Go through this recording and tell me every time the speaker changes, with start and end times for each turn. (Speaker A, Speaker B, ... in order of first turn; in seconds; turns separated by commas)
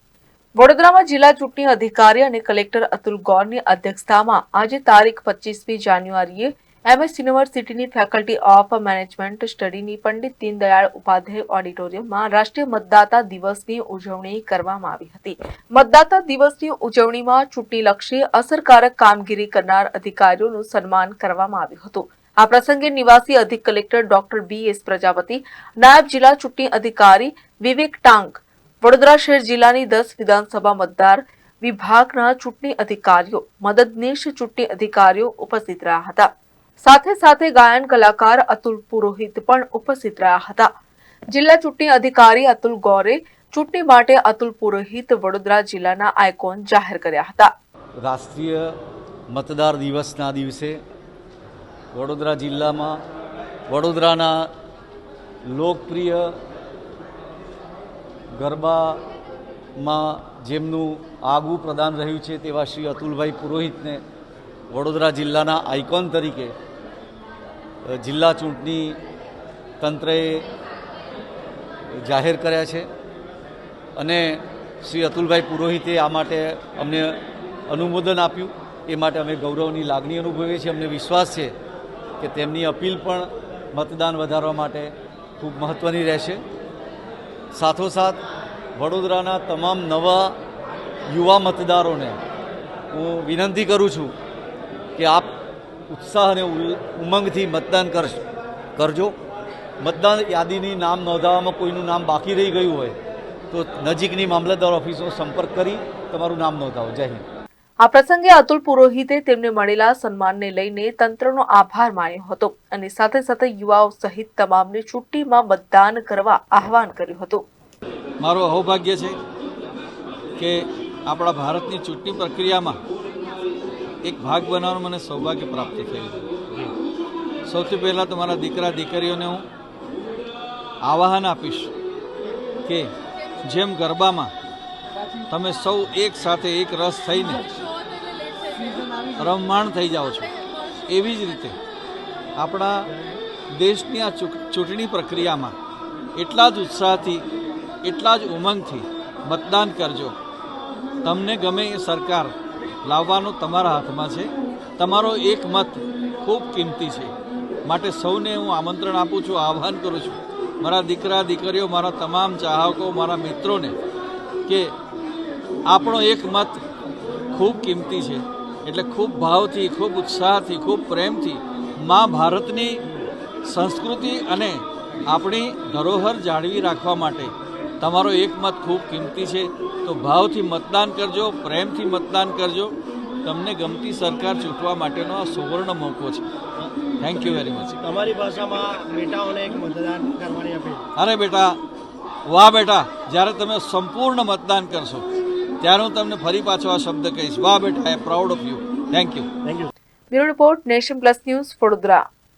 Speaker A: 0.6-36.3, Speaker A: 36.8-40.7, Speaker A: 41.3-47.5, Speaker B: 48.0-48.8, Speaker B: 49.3-50.8, Speaker B: 51.9-53.0, Speaker B: 53.7-54.5, Speaker B: 55.5-56.4, Speaker B: 58.4-59.0, Speaker B: 59.8-64.0, Speaker B: 64.7-66.5, Speaker B: 67.9-69.0, Speaker B: 69.8-70.5, Speaker B: 71.9-72.9, Speaker B: 74.0-81.5, Speaker B: 82.2-86.4, Speaker B: 87.5-88.2, Speaker B: 88.8-90.4, Speaker B: 91.1-92.2, Speaker B: 92.9-94.2, Speaker B: 95.0-95.3, Speaker B: 95.9-98.2, Speaker B: 98.8-99.2, Speaker B: 99.8-103.0, Speaker B: 103.5-107.2, Speaker A: 107.8-117.4, Speaker C: 118.2-119.2, Speaker C: 120.4-122.8, Speaker C: 124.0-126.2, Speaker C: 127.5-129.5, Speaker C: 130.8-131.7, Speaker C: 132.7-132.9, Speaker C: 133.4-134.3, Speaker C: 135.3-137.5, Speaker C: 139.2-141.6, Speaker C: 142.4-142.9, Speaker C: 143.6-145.6, Speaker C: 146.2-147.2, Speaker C: 147.8-150.2, Speaker C: 151.0-152.3, Speaker C: 152.8-157.1, Speaker C: 157.7-163.8, Speaker C: 164.5-164.7, Speaker C: 165.7-166.6, Speaker C: 167.3-172.8, Speaker C: 173.4-186.2, Speaker C: 187.0-187.7, Speaker D: 187.8-190.8, Speaker C: 191.0-191.6, Speaker C: 192.3-195.1, Speaker C: 195.6-199.3, Speaker D: 199.4-199.7, Speaker A: 200.1-202.0